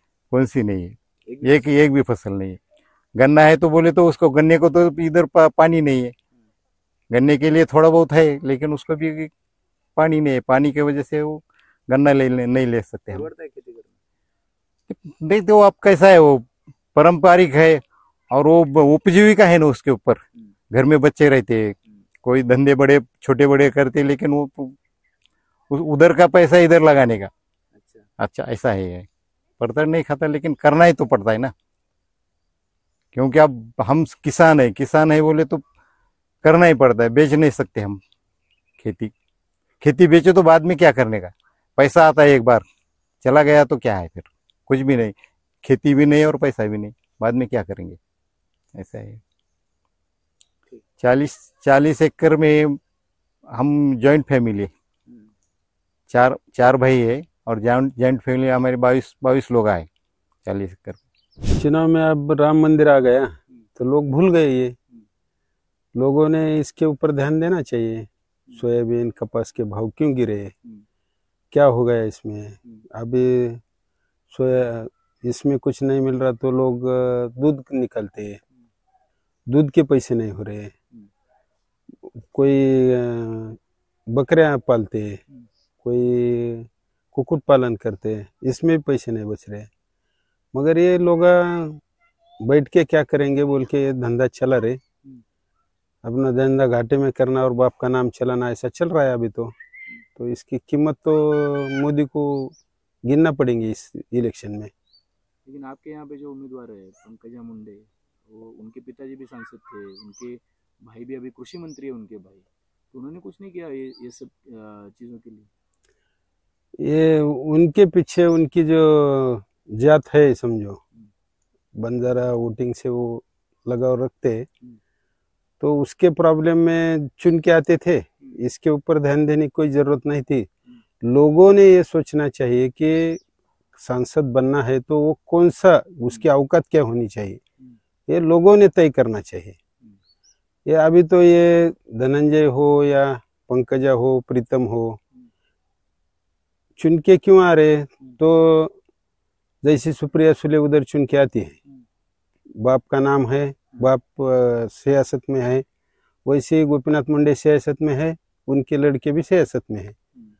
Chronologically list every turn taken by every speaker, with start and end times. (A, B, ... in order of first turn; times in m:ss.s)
0:00.3-0:02.6 A
0:01.3-0:01.7 B
0:03.2-0:06.1 A
0:07.1-0:09.3 A
0:10.0-0:13.3 A
0:13.1-0:14.0 B
0:14.9-0:24.8 A
0:25.7-0:27.3 A
0:27.7-0:28.0 B
0:28.2-0:29.1 A
0:29.6-0:31.5 A
0:33.1-0:35.6 A
0:36.4-0:38.0 A
0:38.8-0:39.1 A
0:39.8-0:42.6 A
0:43.2-0:48.0 A
0:48.7-0:49.2 A
0:51.0-0:52.8 A
0:53.5-0:54.7 A
0:56.1-0:59.9 A
1:00.4-1:01.0 A
1:01.5-1:04.8 C
1:05.9-1:10.5 C
1:11.5-1:13.6 C
1:14.3-1:18.4 C
1:19.5-1:20.7 C
1:22.3-1:23.6 C
1:24.1-1:25.2 C
1:25.8-1:29.7 C
1:30.5-1:31.8 C
1:32.4-1:34.8 C
1:36.0-1:39.5 C
1:40.2-1:44.7 C
1:45.4-1:55.5 B
1:56.8-2:00.8 C
2:01.8-2:04.5 C
2:05.6-2:10.5 C
2:11.0-2:13.2 C
2:13.8-2:17.4 C
2:18.1-2:19.6 C
2:20.6-2:25.0 C
2:26.8-2:28.7 C
2:29.6-2:31.6 C
2:32.6-2:35.6 C
2:36.2-2:39.9 C